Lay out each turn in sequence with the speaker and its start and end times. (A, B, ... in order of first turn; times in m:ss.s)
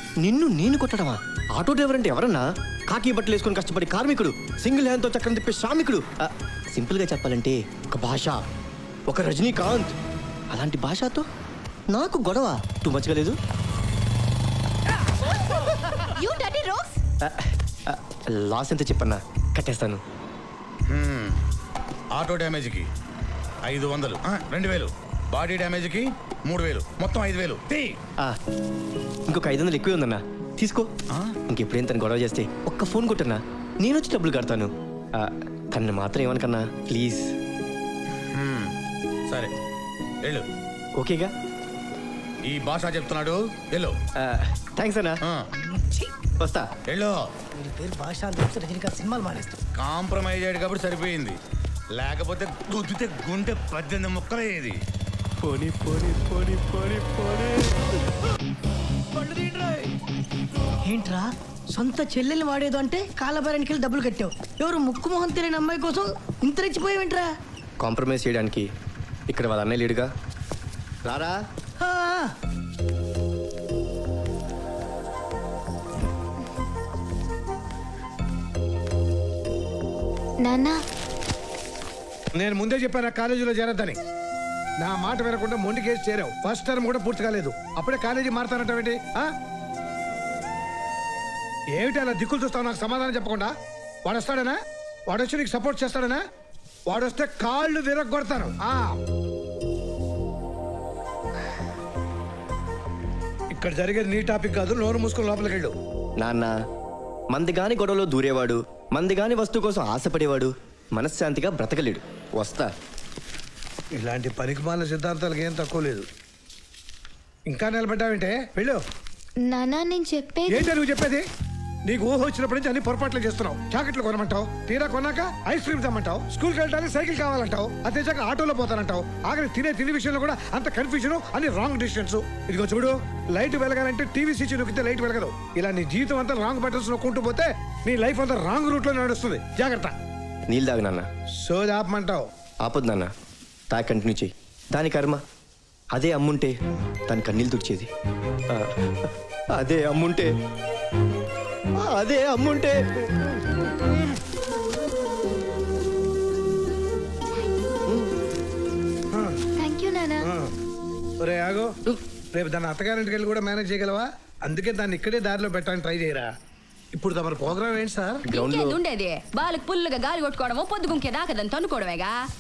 0:00.2-0:08.5 A
0:09.1-0:10.0 A
0:10.5-0:11.3 A
0:11.9-0:13.4 A
0:15.1-0:17.0 B
0:17.2-0:20.0 A
0:20.9-0:21.4 C
0:22.2-0:22.9 C
0:23.6-0:28.0 C
0:29.3-0:30.9 A
0:31.5-0:37.3 A
0:38.3-0:38.7 C
0:41.0-0:41.3 A
0:42.5-0:44.0 C
0:44.2-0:45.2 A
0:45.6-0:46.1 D
0:46.4-0:46.7 A
0:46.9-0:47.2 C
0:47.6-0:49.6 D
0:49.8-0:51.4 C
0:52.0-0:54.8 C
1:00.9-1:07.3 D
1:07.8-1:08.7 A
1:09.3-1:10.1 A
1:11.0-1:11.4 A
1:11.8-1:12.3 D
1:20.4-1:20.8 B
1:22.4-1:24.0 E
1:24.8-1:29.3 E
1:31.8-1:33.5 E
1:34.0-1:34.6 E
1:35.1-1:36.2 E
1:36.9-1:38.9 E
1:43.5-1:45.7 E
1:46.2-1:46.5 A
1:47.3-1:52.7 A
1:54.0-1:56.1 E
1:57.5-1:58.8 E
1:59.5-2:00.7 B
2:00.5-2:01.2 E
2:01.9-2:19.9 E
2:20.5-2:21.1 A
2:21.4-2:22.2 E
2:22.6-2:23.1 A
2:23.7-2:25.2 A
2:25.9-2:26.6 A
2:27.1-2:27.9 A
2:28.5-2:30.3 A
2:31.8-2:32.8 A
2:39.6-2:40.3 B
2:41.2-2:41.7 E
2:42.4-2:46.3 E
2:46.9-2:48.2 E
2:48.3-2:48.8 A
2:48.3-2:52.2 F